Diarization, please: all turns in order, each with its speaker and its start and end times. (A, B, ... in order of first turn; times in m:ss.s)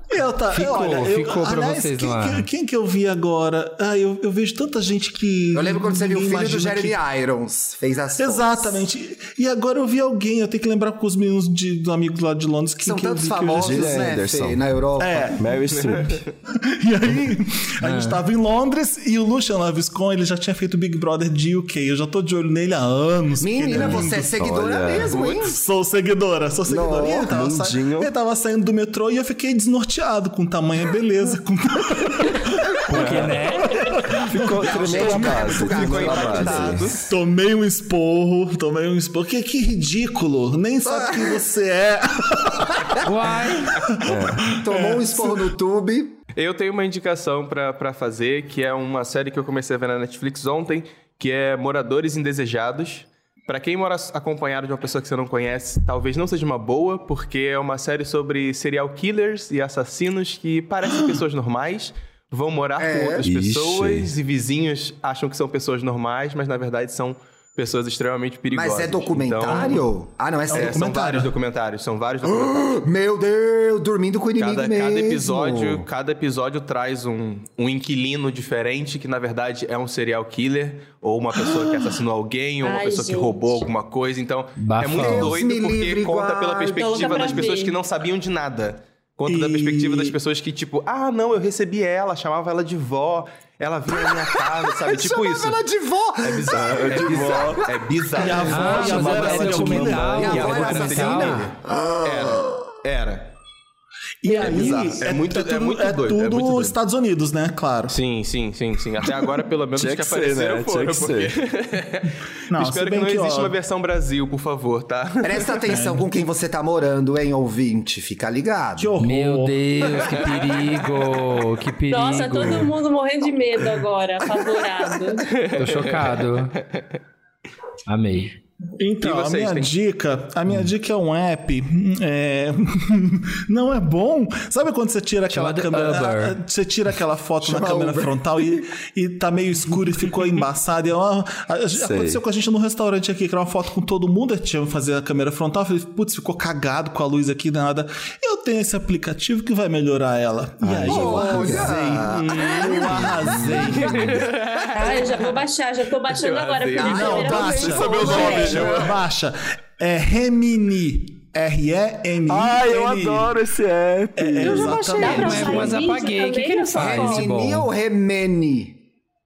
0:00.1-0:07.0 A
0:00.5-0:02.4 B
0:05.5-0:08.8 C
0:08.2-0:14.2 A
0:12.8-0:15.4 C
0:13.6-0:14.6 D
0:15.0-0:15.4 A
0:15.4-0:16.2 D
0:16.5-0:24.3 A
0:17.8-0:18.2 B
0:23.4-0:25.6 C
0:23.8-0:25.2 D
0:25.0-0:25.4 E
0:25.3-0:42.9 A
0:26.7-0:27.4 C
0:27.3-0:28.1 D
0:32.9-0:33.8 B
0:34.2-0:36.9 D
0:34.6-0:37.1 C
0:35.0-0:37.1 E
0:40.8-0:41.4 C
0:42.7-0:43.0 C
0:43.0-0:43.8 B
0:43.8-0:45.5 A
0:44.0-0:44.5 D
0:44.4-0:46.2 C
0:46.4-1:09.8 E
1:02.8-1:03.3 C
1:03.2-1:04.1 D
1:08.5-1:10.9 C
1:09.5-1:09.8 A
1:10.5-1:11.3 A
1:10.5-1:12.9 E
1:12.3-1:15.9 C
1:14.4-1:35.6 E
1:22.6-1:23.7 F
1:24.6-1:25.4 B
1:25.0-1:27.5 C
1:26.8-1:27.8 F
1:29.3-1:30.2 A
1:34.0-1:37.6 C
1:36.2-1:43.3 E
1:36.5-1:37.7 D
1:38.2-1:40.7 A
1:38.5-1:41.5 B
1:38.6-1:40.1 D
1:40.2-1:42.6 C
1:44.2-1:48.0 A
1:44.3-1:46.8 E
1:47.9-1:55.6 E
1:49.8-1:51.4 D
1:52.5-1:53.6 A
1:55.2-1:58.9 C
1:55.7-1:56.1 A
1:58.8-1:59.6 A
1:59.0-2:02.7 B
2:01.9-2:05.3 F
2:05.3-2:06.2 E
2:05.5-2:06.6 B
2:07.9-2:08.3 B
2:08.8-2:34.2 A
2:09.0-2:09.7 E
2:15.3-2:16.4 B
2:17.4-2:18.6 C
2:21.8-2:22.2 D
2:30.6-2:31.7 D
2:30.9-2:35.2 C
2:32.0-2:35.4 E
2:33.3-2:34.2 B
2:34.7-2:38.6 F
2:36.1-2:38.8 E
2:36.8-2:43.4 A
2:36.8-2:39.0 C
2:37.6-2:38.9 D
2:42.3-2:44.8 D
2:44.2-2:45.8 A
2:44.4-2:47.7 B
2:45.0-2:47.4 F
2:46.8-2:48.8 C